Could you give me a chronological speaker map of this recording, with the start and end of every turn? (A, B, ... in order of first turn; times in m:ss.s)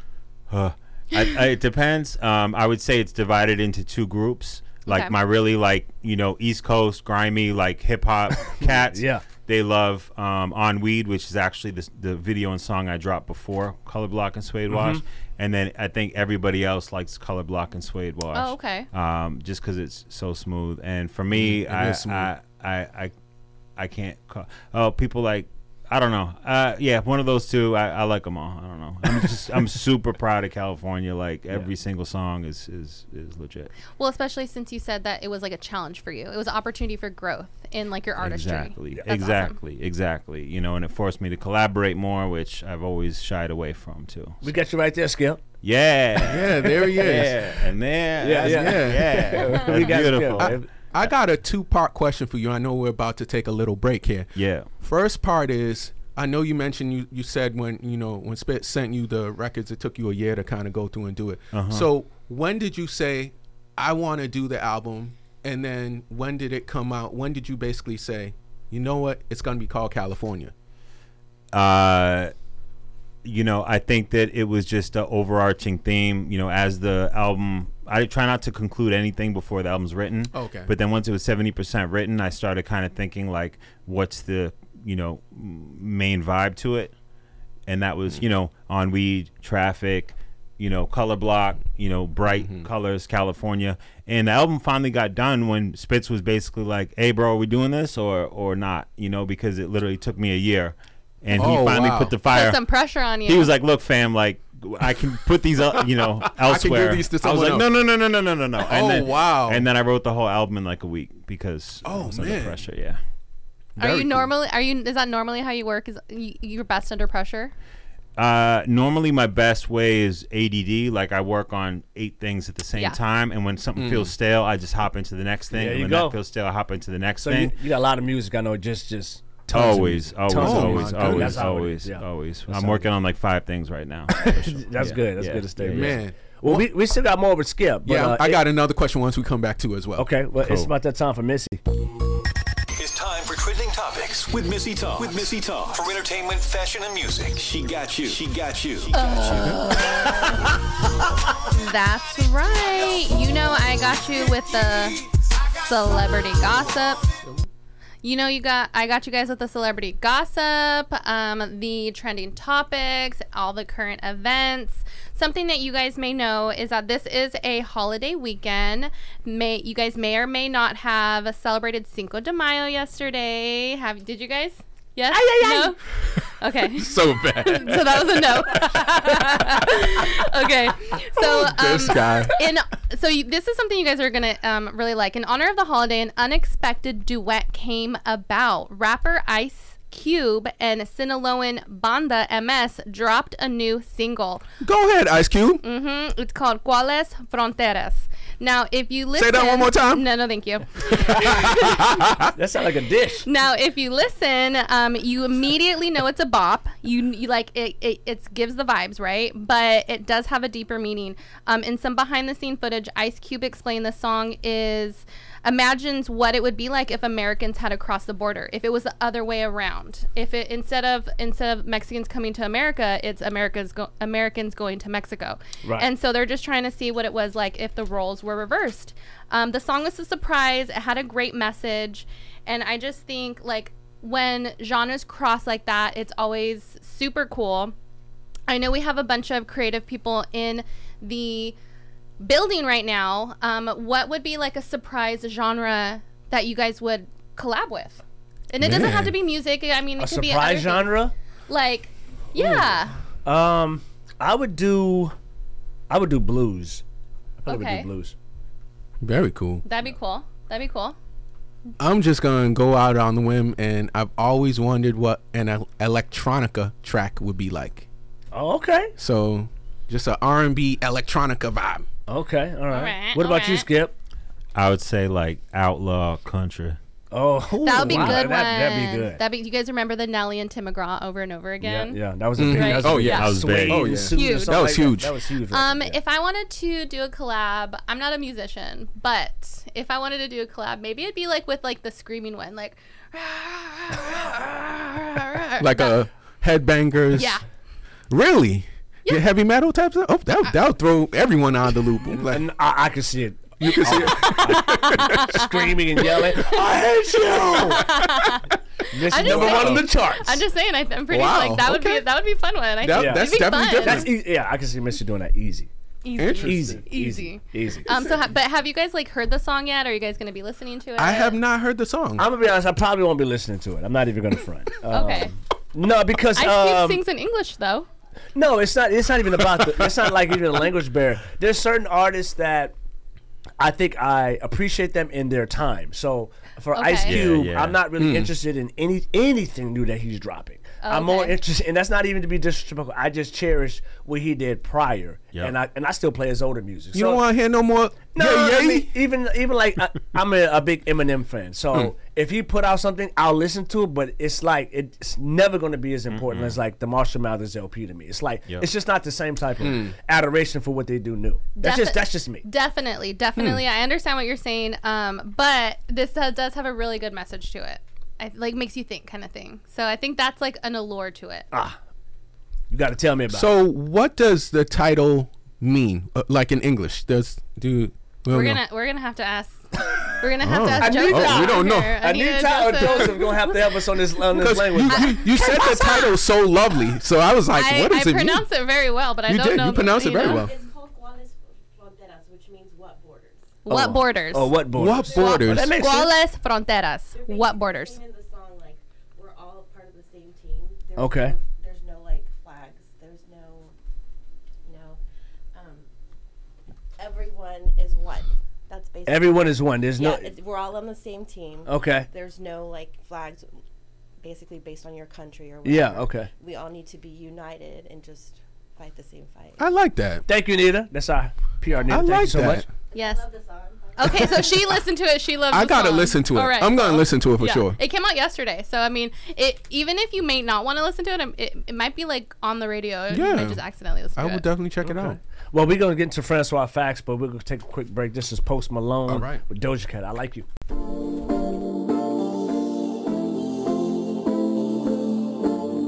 0:00.5-0:23.1 A
0:04.8-0:05.2 B
0:08.6-0:09.2 C
0:14.7-0:15.0 C
0:18.3-0:18.9 B
0:21.3-0:22.3 D
0:23.8-0:33.7 A
0:34.0-0:39.6 B
0:38.2-0:44.4 A
0:44.4-0:45.4 C
0:45.6-0:51.1 A
0:46.2-0:47.5 D
0:48.2-0:50.7 C
0:48.3-0:50.0 D
0:50.9-1:10.5 D
0:54.3-0:54.7 A
1:01.5-1:01.9 A
1:11.5-1:12.3 A
1:13.2-1:26.9 A
1:20.3-1:20.7 D
1:27.7-1:42.6 A
1:32.3-1:32.7 D
1:41.3-1:42.1 D
1:42.3-1:43.5 B
1:43.2-1:53.0 A
1:46.3-1:47.7 D
1:48.6-1:49.7 D
1:51.8-1:52.6 D
1:53.8-1:54.3 D
1:53.8-1:57.5 B
1:58.2-2:07.5 A
2:03.8-2:04.1 D
2:05.5-2:06.2 C
2:07.2-2:12.8 C
2:09.5-2:16.0 A
2:10.3-2:11.5 D
2:14.1-2:18.4 C
2:15.6-2:16.7 D
2:17.8-2:20.1 D
2:20.0-2:21.6 C
2:20.4-2:20.7 A
2:22.8-2:29.6 E
2:28.9-2:30.1 B
2:31.5-2:35.0 B
2:35.6-2:37.0 B
2:38.0-2:55.8 B
2:55.1-2:55.7 C
2:56.4-3:14.4 B
2:56.7-2:58.4 D
3:01.2-3:02.3 D
3:14.6-3:15.6 D
3:15.6-3:21.8 B
3:19.2-3:20.0 D
3:20.9-3:22.3 D
3:22.4-3:23.3 C
3:23.2-3:57.7 B
3:58.5-4:01.5 B
4:02.2-4:12.9 B
4:08.6-4:09.1 D
4:10.0-4:11.1 C
4:13.2-4:15.1 C
4:15.9-4:16.8 C
4:17.4-4:18.1 C
4:17.5-4:17.9 B
4:19.0-4:19.6 D
4:19.6-4:21.0 B
4:21.8-4:27.9 D
4:28.3-4:28.9 C
4:29.0-4:31.8 D
4:32.1-4:33.9 C
4:32.7-4:33.7 B
4:34.5-4:36.8 A
4:37.1-4:39.2 C
4:37.6-4:43.4 B
4:37.9-4:38.2 A
4:41.6-4:46.0 C
4:42.4-4:45.1 D
4:43.0-4:44.0 A
4:44.0-4:44.8 B
4:45.5-4:56.0 B
4:55.6-4:57.4 D
4:57.1-4:57.4 B
4:58.1-5:02.4 D
5:02.2-5:08.0 C
5:03.6-5:05.4 D
5:04.1-5:05.7 B
5:07.3-5:07.7 D
5:07.5-5:08.5 B
5:08.9-5:10.4 C
5:09.0-5:14.1 B
5:09.2-5:09.9 D
5:11.1-5:12.1 D
5:12.8-5:14.1 D
5:12.9-5:15.7 C
5:16.0-5:21.4 B
5:16.2-5:16.8 D
5:16.4-5:18.2 C
5:21.0-5:22.3 D
5:22.2-5:27.0 C
5:24.9-5:25.3 B
5:26.3-5:27.9 B
5:28.3-5:32.7 C
5:33.6-5:47.2 C
5:36.7-5:37.3 B
5:37.0-5:37.8 A
5:38.0-5:38.3 D
5:40.8-5:41.4 B
5:46.9-5:48.9 D
5:48.1-6:02.4 C
5:56.1-5:56.6 A
5:59.6-5:59.9 D
6:01.6-6:11.5 B
6:03.4-6:03.6 D
6:11.5-6:11.8 C
6:12.7-6:13.5 C
6:13.3-6:18.6 D
6:18.3-6:23.4 B
6:20.4-6:22.0 D
6:20.8-6:25.9 C
6:24.3-6:28.5 D
6:24.9-6:26.1 B
6:27.5-6:30.5 B
6:29.2-6:30.5 D
6:29.9-6:33.6 F
6:33.6-6:34.5 B
6:33.7-6:36.1 C
6:34.7-6:35.7 D
6:35.0-6:35.4 F
6:35.1-6:38.0 B
6:37.1-6:43.7 F
6:41.0-6:41.3 C
6:44.6-6:45.0 F
6:45.5-6:45.9 F
6:47.0-6:53.5 F
6:49.0-6:50.3 C
6:51.6-6:52.1 C
6:54.2-6:59.7 F
6:55.6-6:56.3 C
6:59.6-7:00.2 D
7:00.3-7:02.6 C
7:01.9-7:02.6 D
7:02.9-7:04.7 F
7:02.9-7:03.2 B
7:04.0-7:14.5 B
7:05.5-7:07.8 D
7:13.1-7:13.6 D
7:14.2-7:15.2 D
7:14.8-7:20.4 C
7:19.1-7:19.4 D